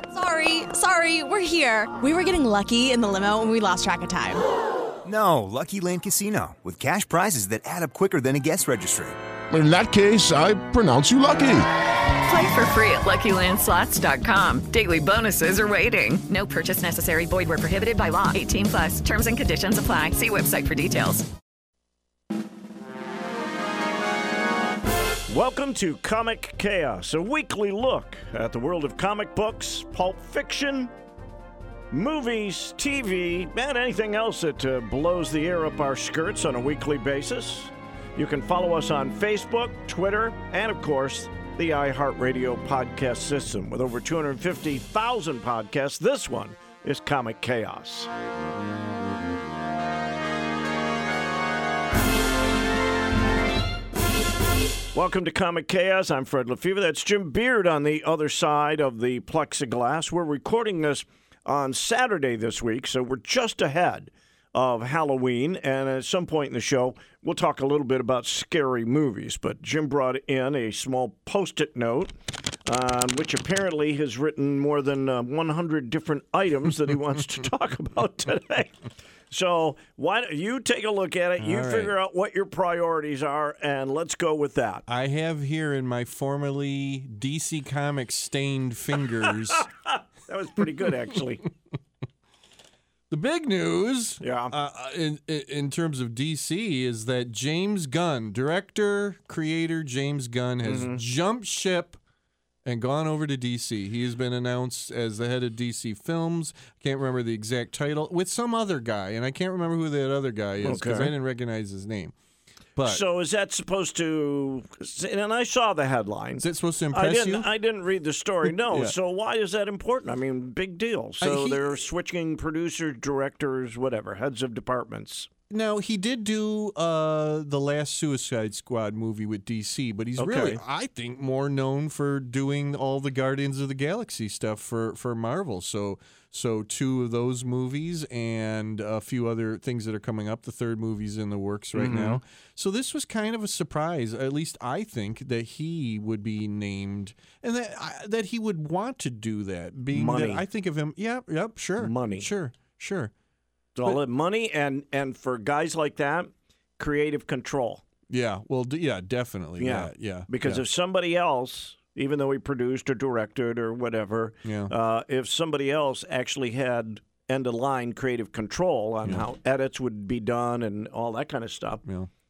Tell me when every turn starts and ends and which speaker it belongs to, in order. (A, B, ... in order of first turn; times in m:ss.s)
0:00.1-0:04.4 A
0:05.0-0:09.2 B
0:09.5-0:11.7 C
0:12.2-0:21.3 D
0:25.3-0:30.9 E
0:31.9-0:48.1 E
0:54.9-1:12.1 E
1:12.6-1:18.8 E
1:19.3-1:24.8 E
1:21.4-1:21.9 F
1:24.9-1:29.7 F
1:29.5-1:31.5 E
1:33.1-1:42.0 F
1:34.2-1:34.5 E
1:40.6-1:41.0 E
1:42.6-1:52.1 F
1:50.6-1:51.1 E
1:52.8-1:53.0 F
1:52.8-2:05.3 E
1:56.4-1:57.5 F
1:58.5-1:58.9 F
2:01.2-2:01.7 F
2:05.5-2:33.1 F
2:10.2-2:10.6 E
2:21.8-2:22.2 E
2:29.9-2:30.4 E
2:31.8-2:32.3 E
2:33.8-2:37.8 E
2:38.1-2:40.6 F
2:39.6-2:51.8 E
2:44.4-2:44.7 F
2:51.8-2:52.1 F